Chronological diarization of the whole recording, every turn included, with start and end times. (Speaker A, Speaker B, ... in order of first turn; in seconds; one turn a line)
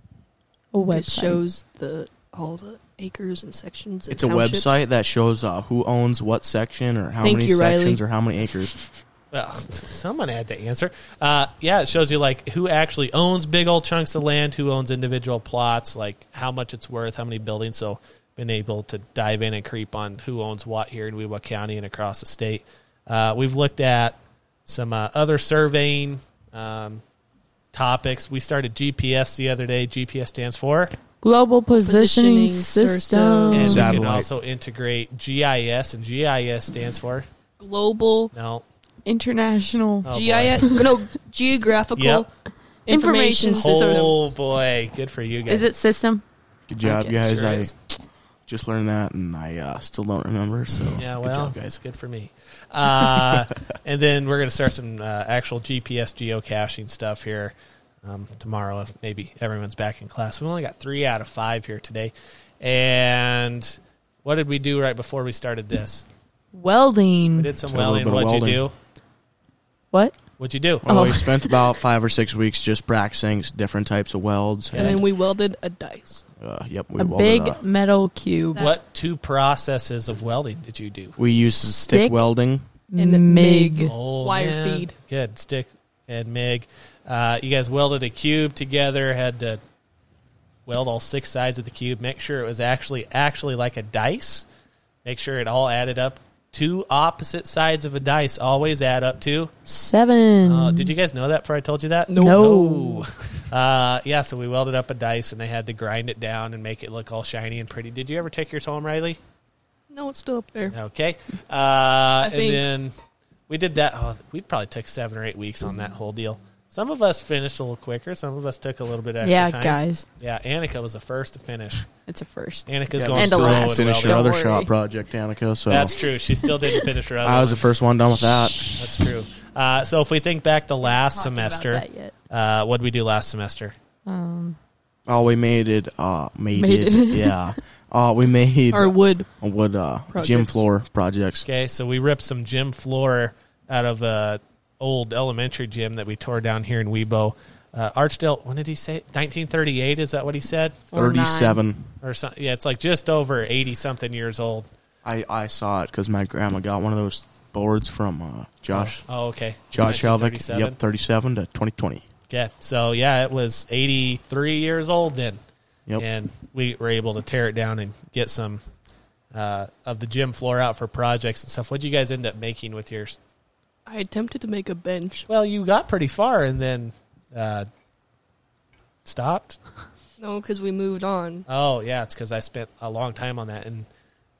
Speaker A: 0.7-1.4
Speaker B: 0.8-4.8
Speaker C: 4.1-8.8
Speaker B: 7.2-8.0
Speaker D: 9.3-27.0
Speaker D: 27.7-30.9
Speaker A: 31.2-34.0
Speaker B: 31.8-34.0
Speaker D: 33.5-37.3
Speaker C: 33.6-34.3
Speaker B: 37.6-38.3
Speaker D: 38.3-38.6
Speaker A: 39.0-40.9
Speaker D: 40.0-40.7
Speaker B: 40.1-42.3
Speaker D: 42.0-42.2
Speaker B: 42.9-44.1
Speaker A: 42.9-44.1
Speaker D: 43.5-45.7
Speaker A: 45.5-46.2
Speaker C: 46.7-47.7
Speaker A: 46.8-47.1
Speaker D: 47.0-47.7
Speaker C: 48.5-51.8
Speaker D: 51.0-66.0
Speaker A: 66.5-67.5
Speaker D: 67.3-68.7
Speaker C: 67.6-68.6
Speaker D: 70.4-70.8
Speaker C: 70.8-75.0
Speaker A: 70.8-71.7
Speaker D: 74.7-75.0
Speaker B: 74.7-76.2
Speaker C: 76.4-77.6
Speaker A: 77.0-78.7
Speaker B: 78.5-78.8
Speaker D: 78.6-81.2
Speaker C: 81.2-82.6
Speaker A: 81.6-82.2
Speaker A: 82.9-83.9
Speaker B: 83.0-84.9
Speaker D: 83.8-89.6
Speaker D: 90.7-94.5
Speaker D: 95.0-99.5
Speaker A: 99.7-100.9
Speaker D: 100.4-109.2
Speaker B: 102.1-102.5
Speaker A: 102.1-103.0
Speaker B: 109.9-110.8
Speaker D: 110.7-112.9
Speaker B: 112.2-112.6
Speaker D: 113.5-121.9
Speaker A: 119.2-120.0
Speaker A: 122.1-124.7
Speaker D: 122.7-124.3
Speaker C: 122.9-126.0
Speaker D: 125.7-127.7
Speaker C: 127.2-128.8
Speaker D: 128.8-133.7
Speaker A: 130.9-132.1
Speaker A: 134.1-134.6
Speaker C: 135.1-141.5
Speaker A: 136.5-137.5
Speaker B: 138.7-139.3
Speaker B: 140.1-140.6
Speaker D: 141.4-150.8
Speaker A: 150.9-151.6
Speaker C: 150.9-151.9
Speaker D: 152.0-154.7
Speaker C: 155.0-159.0
Speaker D: 158.7-160.8
Speaker C: 159.7-162.0
Speaker D: 162.3-165.4
Speaker D: 166.0-168.6
Speaker D: 169.3-173.2
Speaker B: 173.8-175.3
Speaker D: 175.3-177.7
Speaker D: 179.0-179.6
Speaker B: 180.2-181.4
Speaker D: 181.5-183.9